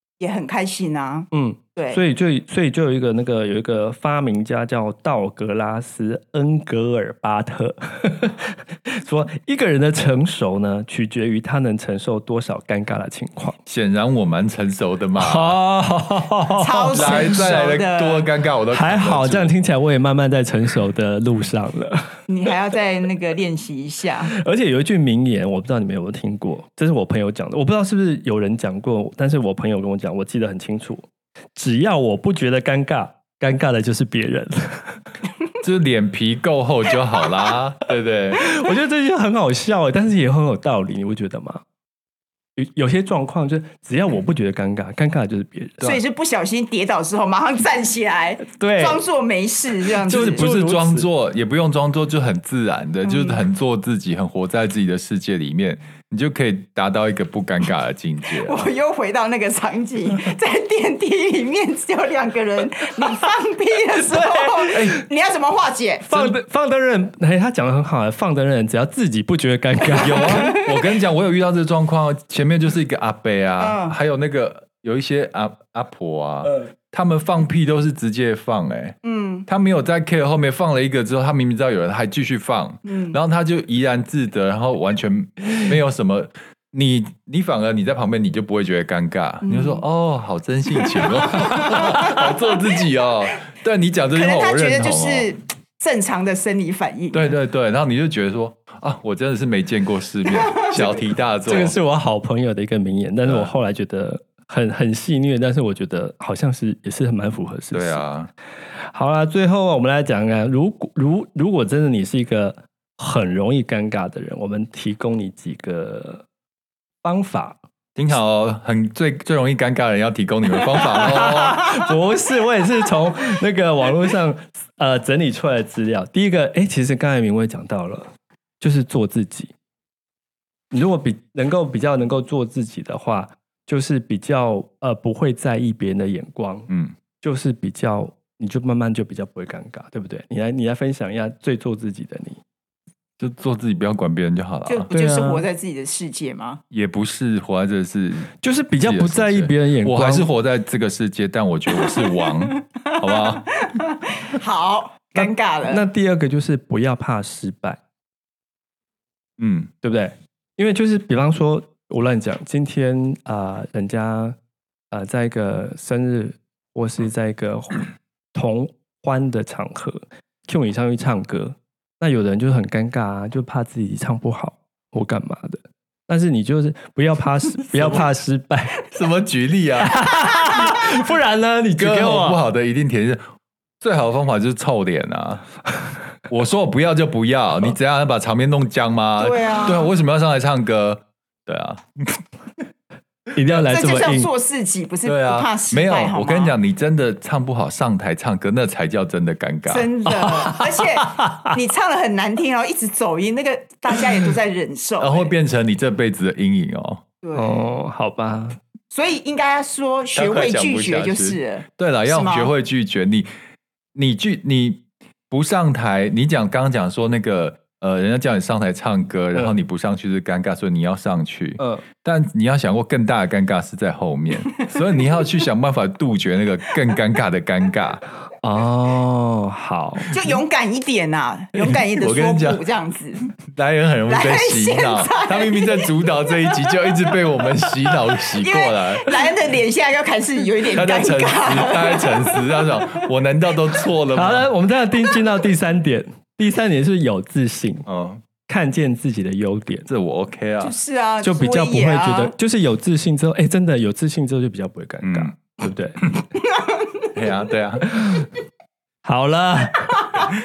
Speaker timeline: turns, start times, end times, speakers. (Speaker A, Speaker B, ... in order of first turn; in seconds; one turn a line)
Speaker A: 0.2-2.0
Speaker B: 1.3-13.6
Speaker C: 13.7-15.6
Speaker B: 15.2-17.4
Speaker A: 16.6-18.3
Speaker C: 16.9-19.5
Speaker B: 18.7-22.2
Speaker A: 22.3-24.3
Speaker B: 24.3-35.0
Speaker C: 35.6-38.5
Speaker B: 38.4-41.6
Speaker B: 42.6-45.9
Speaker A: 45.8-50.4
Speaker B: 48.4-49.0
Speaker B: 50.0-51.1
Speaker C: 50.1-58.7
Speaker A: 53.0-53.4
Speaker A: 58.4-66.3
Speaker B: 64.0-65.0
Speaker B: 66.1-70.5
Speaker C: 70.0-95.3
Speaker A: 70.3-70.7
Speaker A: 73.6-74.0
Speaker A: 79.0-79.5
Speaker A: 82.8-83.2
Speaker A: 89.4-89.8
Speaker A: 90.9-92.2
Speaker A: 94.1-97.3
Speaker C: 97.1-101.8
Speaker A: 100.4-100.8
Speaker B: 101.5-108.0
Speaker C: 103.2-103.5
Speaker C: 107.7-108.3
Speaker B: 108.9-116.3
Speaker B: 117.0-117.6
Speaker C: 118.0-121.8
Speaker B: 120.8-129.5
Speaker B: 130.7-136.7
Speaker C: 136.7-136.9
Speaker B: 137.2-142.4
Speaker C: 143.2-144.9
Speaker A: 144.7-146.6
Speaker B: 144.9-145.4
Speaker C: 146.7-153.5
Speaker B: 148.4-150.3
Speaker A: 151.8-155.9
Speaker B: 155.2-157.8
Speaker C: 159.4-159.7
Speaker B: 159.8-164.4
Speaker B: 164.9-178.8
Speaker C: 177.7-178.1
Speaker C: 178.9-180.3
Speaker B: 179.8-182.4
Speaker C: 181.8-183.2
Speaker C: 183.8-185.5
Speaker C: 186.2-192.2
Speaker A: 189.2-189.9
Speaker B: 193.3-194.3
Speaker A: 193.7-196.6
Speaker C: 195.1-199.9
Speaker A: 199.7-205.3
Speaker B: 200.1-201.5
Speaker C: 205.0-207.0
Speaker A: 207.2-207.6
Speaker B: 207.3-208.6
Speaker A: 208.9-212.5
Speaker C: 210.1-213.3
Speaker C: 213.9-228.0
Speaker B: 221.6-221.8
Speaker B: 228.4-230.2
Speaker A: 230.1-233.2
Speaker C: 231.6-232.6
Speaker C: 233.5-239.2
Speaker A: 234.1-235.9
Speaker A: 238.4-242.4
Speaker C: 240.7-244.5
Speaker B: 244.1-247.9
Speaker C: 247.9-248.2
Speaker B: 248.5-249.9
Speaker C: 249.9-250.8
Speaker A: 250.6-252.3
Speaker B: 251.2-256.0
Speaker C: 255.0-255.4
Speaker A: 256.6-257.1
Speaker C: 257.1-258.0
Speaker B: 257.9-258.3
Speaker B: 259.1-260.3